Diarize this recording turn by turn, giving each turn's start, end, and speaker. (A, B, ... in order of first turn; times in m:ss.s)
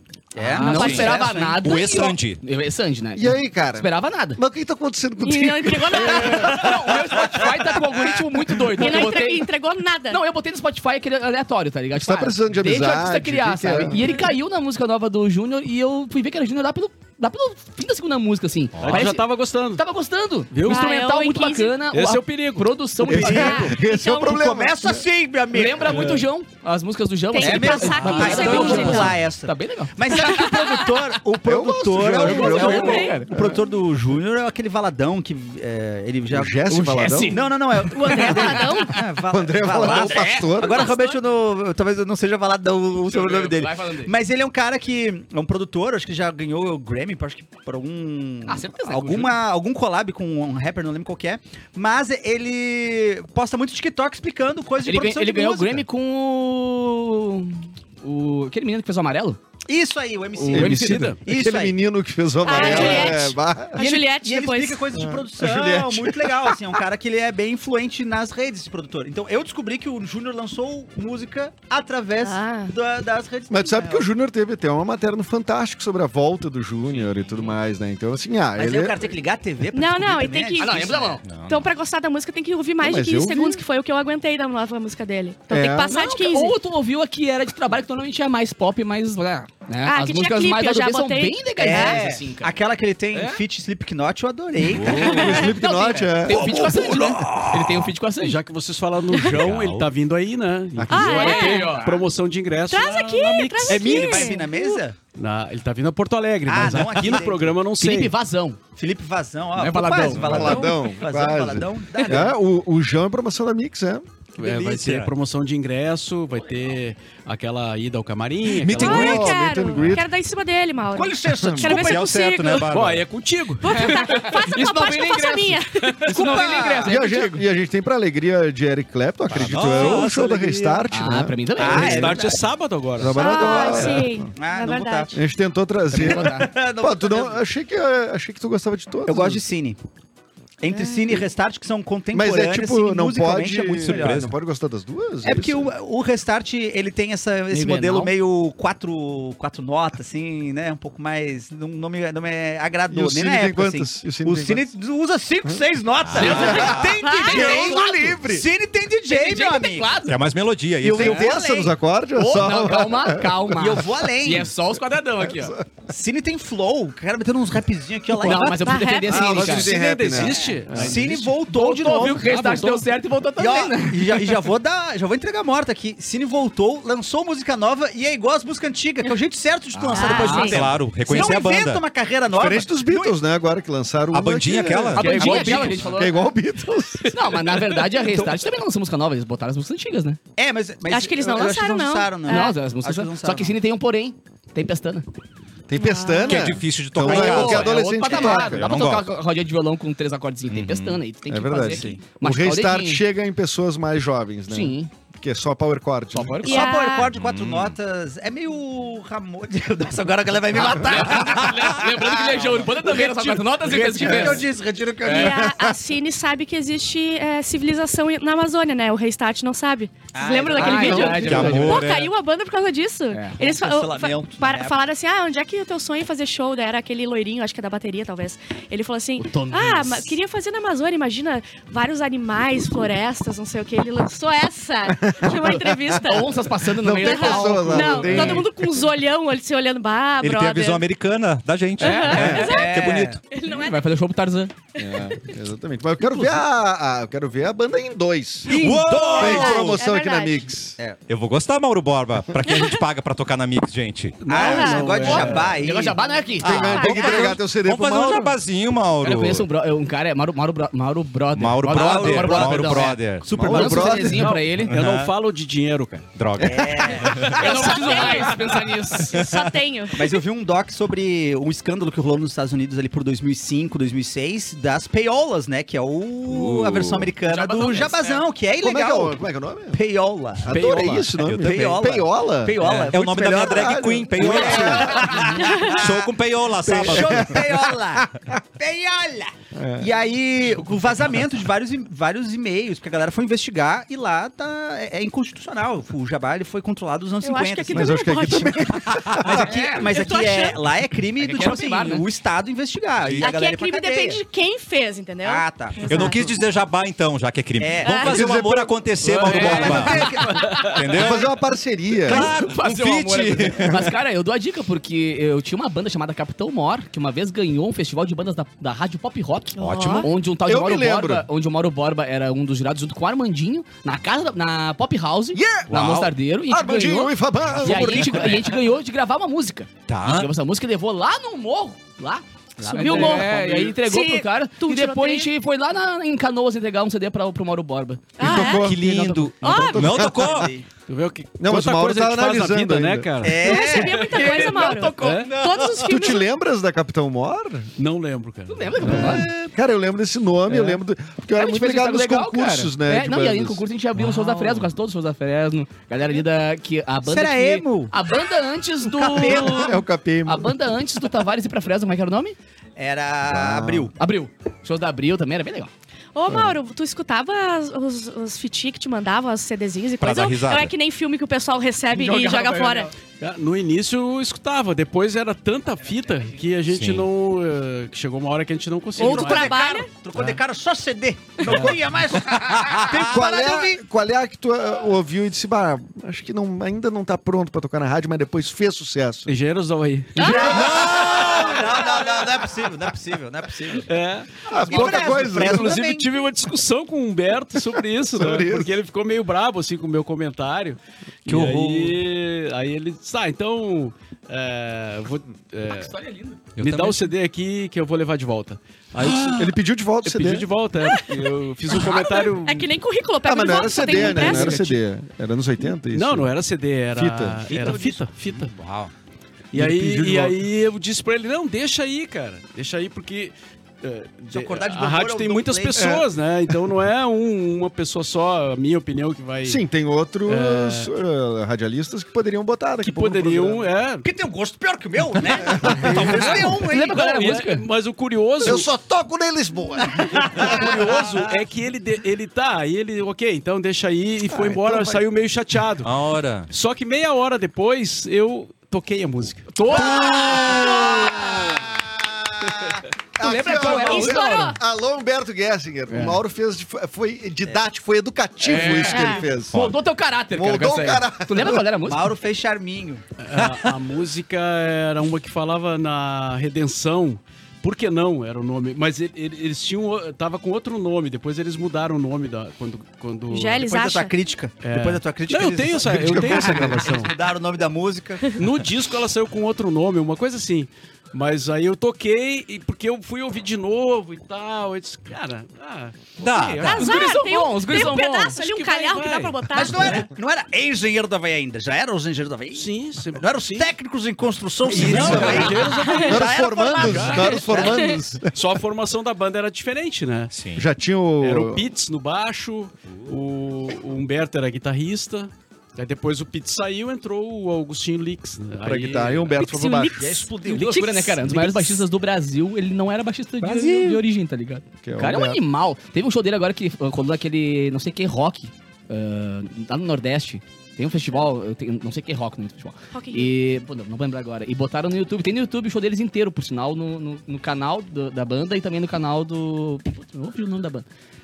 0:00.3-0:01.8 A
0:00.4-0:04.4 B
0:00.5-0:02.4 C
0:00.7-0:01.1 D
0:03.2-0:07.4 E
0:05.2-0:06.7 D
0:05.9-0:09.5 B
0:08.7-0:10.2 D
0:10.1-0:23.7 B
0:12.0-0:14.2 E
0:18.8-0:19.1 C
0:18.8-0:19.8 F
0:20.5-0:20.8 F
0:20.6-0:21.8 D
0:21.9-0:23.3 F
0:23.0-0:25.0 E
0:23.2-0:24.4 D
0:24.1-0:26.2 A
0:25.5-0:31.2 B
0:25.9-0:26.2 F
0:27.3-0:29.2 D
0:27.4-0:36.7 A
0:30.1-0:30.9 D
0:31.4-0:33.7 E
0:32.1-0:33.3 B
0:32.2-0:33.3 D
0:36.3-0:37.4 E
0:36.7-0:39.0 B
0:37.2-0:55.8 A
0:37.9-0:39.0 D
0:39.3-0:40.9 E
0:39.6-0:40.6 B
0:40.6-0:41.2 D
0:43.1-0:44.1 B
0:48.5-0:49.3 B
0:54.8-0:59.4 B
0:59.7-1:01.8 A
1:00.4-1:01.1 B
1:00.4-1:01.2 F
1:00.5-1:03.8 E
1:02.4-1:04.8 D
1:02.4-1:14.1 A
1:04.9-1:06.8 E
1:12.2-1:12.7 D
1:13.5-1:19.1 E
1:18.6-1:21.2 A
1:19.7-1:26.6 D
1:20.6-1:21.2 B
1:21.2-1:21.7 C
1:22.8-1:23.6 E
1:25.5-1:25.9 E
1:25.9-1:32.5 B
1:29.8-1:32.0 D
1:31.6-1:35.4 A
1:33.1-1:33.4 B
1:34.7-1:35.2 C
1:34.9-1:36.9 E
1:35.1-1:38.4 B
1:35.1-1:35.5 D
1:36.3-1:37.9 A
1:38.2-1:44.3 F
1:39.1-1:39.4 D
1:39.2-1:39.9 C
1:40.8-1:41.3 E
1:40.9-1:41.9 D
1:41.1-1:41.9 B
1:42.7-1:44.8 D
1:43.7-1:44.9 A
1:45.1-1:48.1 F
1:46.4-1:47.5 A
1:47.8-1:48.6 B
1:48.8-1:52.3 A
1:49.6-1:50.6 B
1:50.2-1:54.0 E
1:50.2-1:50.5 C
1:54.4-1:59.2 F
1:54.4-1:55.1 C
1:58.6-2:00.0 C
1:58.7-2:02.7 D
1:58.8-2:00.1 E
2:00.9-2:02.1 A
2:01.4-2:01.7 E
2:01.6-2:03.1 C
2:02.7-2:04.3 F
2:03.6-2:06.4 D
2:03.7-2:07.4 B
2:06.1-2:07.0 A
2:06.8-2:12.1 E
2:09.3-2:10.5 C
2:09.6-2:10.8 F
2:10.9-2:12.2 B
2:11.6-2:12.4 A
2:11.6-2:14.0 F
2:13.0-2:14.3 E
2:13.1-2:15.1 D
2:13.6-2:15.1 A
2:15.1-2:19.4 E
2:15.9-2:16.5 B
2:16.0-2:17.4 A
2:19.1-2:19.8 A
2:20.6-2:24.2 A
2:20.7-2:21.2 D
2:22.1-2:25.7 E
2:23.7-2:24.3 C
2:25.2-2:40.0 A
2:27.5-2:28.1 B
2:32.9-2:34.7 E
2:36.0-2:36.9 C
2:36.2-2:38.1 B
2:36.2-2:38.5 E
2:36.5-2:37.6 D
2:39.1-2:40.2 B
2:40.1-2:41.3 C
2:40.8-2:41.7 A
2:40.8-2:43.6 E
2:42.1-2:45.6 B
2:43.6-2:44.5 A
2:45.2-2:45.7 E
2:45.9-2:49.5 A
2:48.1-2:49.7 B
2:48.5-2:49.3 D
2:49.1-2:51.0 E
2:49.3-2:51.4 F
2:50.2-2:52.3 A
2:51.4-2:54.4 B
2:51.9-2:52.8 F
2:53.4-3:03.2 A
2:59.7-3:00.6 B
2:59.9-3:01.4 D
3:00.4-3:01.8 C
3:02.3-3:07.1 E
3:04.1-3:05.8 C
3:05.0-3:06.2 B
3:05.0-3:05.9 F
3:07.1-3:07.8 F
3:07.1-3:10.2 B
3:10.4-3:13.6 A
3:10.9-3:12.6 D
3:12.3-3:15.1 B
3:15.7-3:18.7 E
3:15.8-3:16.6 D
3:16.2-3:19.1 C
3:17.0-3:23.0 B
3:20.5-3:21.0 C
3:21.3-3:26.5 E
3:21.7-3:22.0 A
3:24.5-3:24.9 B
3:26.1-3:26.8 B
3:26.4-3:27.1 D
3:26.4-3:35.6 A
3:27.1-3:27.8 C
3:30.6-3:34.5 B
3:34.0-3:34.4 E
3:35.0-3:35.3 B
3:35.0-4:00.8 D
3:40.1-3:41.8 A
3:40.5-3:41.8 B
3:41.1-3:42.1 C
3:43.1-3:43.4 B
3:43.4-3:44.8 A
3:49.2-3:50.2 B
3:54.9-3:56.1 E
3:55.3-3:58.5 B
3:56.6-3:58.5 E
4:00.2-4:03.2 C
4:01.8-4:02.5 B
4:01.8-4:03.8 D
4:02.3-4:03.2 A
4:03.4-4:04.5 B
4:04.8-4:05.3 D
4:04.8-4:08.6 E
4:08.5-4:09.5 A
4:08.5-4:09.8 C
4:08.6-4:10.5 D
4:09.1-4:10.8 E
4:11.1-4:14.2 C
4:12.5-4:12.8 D
4:14.2-4:15.5 F
4:14.3-4:16.0 A
4:14.3-4:15.1 D
4:14.9-4:16.9 B
4:16.4-4:18.4 E
4:16.5-4:17.3 D
4:16.6-4:19.5 C
4:19.0-4:24.7 B
4:21.3-4:23.4 C
4:21.7-4:24.0 A
4:23.2-4:24.3 E
4:24.1-4:26.1 F
4:24.7-4:25.1 C
4:26.2-4:27.3 C
4:26.4-4:28.2 A
4:27.0-4:29.2 B
4:27.4-4:30.2 D
4:29.1-4:29.4 C
4:29.9-4:39.2 A
4:36.2-4:37.1 C
4:37.2-4:38.2 B
4:38.6-4:39.8 E
4:39.7-4:58.0 A
4:40.4-4:45.1 E
4:40.5-4:41.1 F
4:41.2-4:41.8 C
4:42.6-4:47.4 C
4:44.6-4:45.4 B
4:45.5-4:45.8 D
4:46.7-4:48.2 E
4:49.5-4:49.9 E
4:57.2-4:58.8 D
4:57.7-4:59.5 E
4:59.1-5:04.2 A
4:59.2-5:00.2 B
4:59.8-5:00.6 D
5:01.2-5:02.0 B
5:03.0-5:03.3 C
5:03.2-5:06.3 D
5:05.2-5:06.1 A
5:05.9-5:11.3 C
5:07.6-5:08.2 A
5:07.8-5:08.3 D
5:08.0-5:08.7 E
5:09.1-5:10.7 B
5:09.2-5:10.7 A
5:09.2-5:10.9 F
5:10.9-5:12.3 E
5:12.0-5:13.9 C
5:12.1-5:38.2 B
5:19.6-5:20.1 D
5:19.6-5:20.0 C
5:20.4-5:21.3 E
5:25.3-5:25.7 E
5:25.7-5:26.1 C
5:26.5-5:28.4 E
5:27.6-5:28.5 A
5:29.9-5:30.3 C
5:32.6-5:33.2 A
5:32.7-5:35.3 D
5:32.8-5:33.7 F
5:38.2-5:38.8 D
5:38.2-5:40.5 E
5:38.2-5:40.5 C
5:39.4-5:40.2 D
5:39.9-5:40.7 A
5:40.9-5:45.4 F
5:41.4-5:43.2 E
5:43.2-5:44.4 A
5:43.3-5:46.2 D
5:44.2-5:45.3 B
5:45.2-5:45.8 A
5:45.8-5:47.7 E
5:47.8-5:49.3 F
5:48.5-5:49.3 B
5:48.8-5:53.6 E
5:50.5-5:50.8 F
5:51.3-6:02.4 B
5:57.1-5:57.9 A
5:58.9-5:59.8 A
5:59.2-6:00.5 E
6:02.8-6:03.9 A
6:03.2-6:03.9 E
6:04.0-6:05.7 B
6:06.1-6:12.9 D
6:06.3-6:06.6 E
6:10.0-6:10.7 C
6:12.0-6:12.8 B
6:13.2-6:19.5 F
6:16.7-6:17.1 C
6:19.0-6:19.9 D
6:19.0-6:23.8 A
6:21.4-6:21.7 D
6:21.5-6:21.8 F
6:22.3-6:22.9 C
6:22.8-6:29.4 E
6:29.3-6:30.6 F
6:30.2-6:30.6 D
6:30.2-6:33.9 A
6:30.4-6:31.6 C
6:33.8-6:45.9 F
6:34.5-6:35.8 E
6:34.5-6:36.1 A
6:37.8-6:38.7 E
6:41.3-6:42.0 C
6:45.7-6:46.4 B
6:46.6-6:47.1 C
6:46.6-6:52.7 F
6:49.0-6:50.5 E
6:50.8-6:54.6 D
6:53.2-6:56.3 E
6:53.9-6:54.8 B
6:54.1-6:54.6 F
6:55.9-6:58.5 F
6:56.9-6:57.4 E
6:57.5-6:58.0 A
6:58.4-6:58.9 C
6:59.5-7:09.6 F
6:59.5-7:00.4 E
7:04.3-7:05.9 A
7:05.8-7:06.1 E
7:09.4-7:13.7 E
7:10.2-7:10.9 F
7:12.8-7:14.0 F
7:14.0-7:17.2 A
7:15.4-7:16.4 E
7:15.7-7:18.7 F
7:15.8-7:17.7 B
7:18.4-7:21.2 E
7:20.0-7:20.6 A
7:20.2-7:25.9 F
7:24.3-7:25.0 E
7:25.8-7:26.5 C
7:26.5-7:29.6 F
7:29.6-7:30.9 B
7:29.7-7:31.2 A
7:29.8-7:39.6 E
7:29.8-7:31.1 D
7:33.2-7:34.6 B
7:33.5-7:34.6 D
7:35.9-7:36.2 B
7:38.4-7:42.1 B
7:38.6-7:39.3 D
7:40.3-7:41.6 E
7:41.8-7:43.0 A
7:43.2-7:53.6 F
7:53.3-7:54.1 D
7:53.6-7:58.3 A
7:54.6-7:57.1 F
7:55.8-7:57.1 E
7:58.3-8:07.0 F
8:06.2-8:06.9 C
8:06.6-8:10.0 D
8:06.7-8:08.4 B
8:08.3-8:10.0 F
8:09.5-8:17.9 A
8:12.5-8:13.7 F
8:14.7-8:17.5 F
8:14.7-8:18.3 E
8:14.7-8:15.6 C
8:15.8-8:16.2 D
8:17.5-8:18.0 D
8:18.3-8:20.3 F
8:20.3-8:20.6 C
8:20.6-8:21.6 E
8:21.2-8:29.4 F
8:28.6-8:30.2 E
8:29.4-8:30.8 D
8:30.0-8:31.2 A
8:30.4-8:50.9 B
8:33.4-8:33.7 E
8:34.8-8:35.4 E
8:42.9-8:43.4 D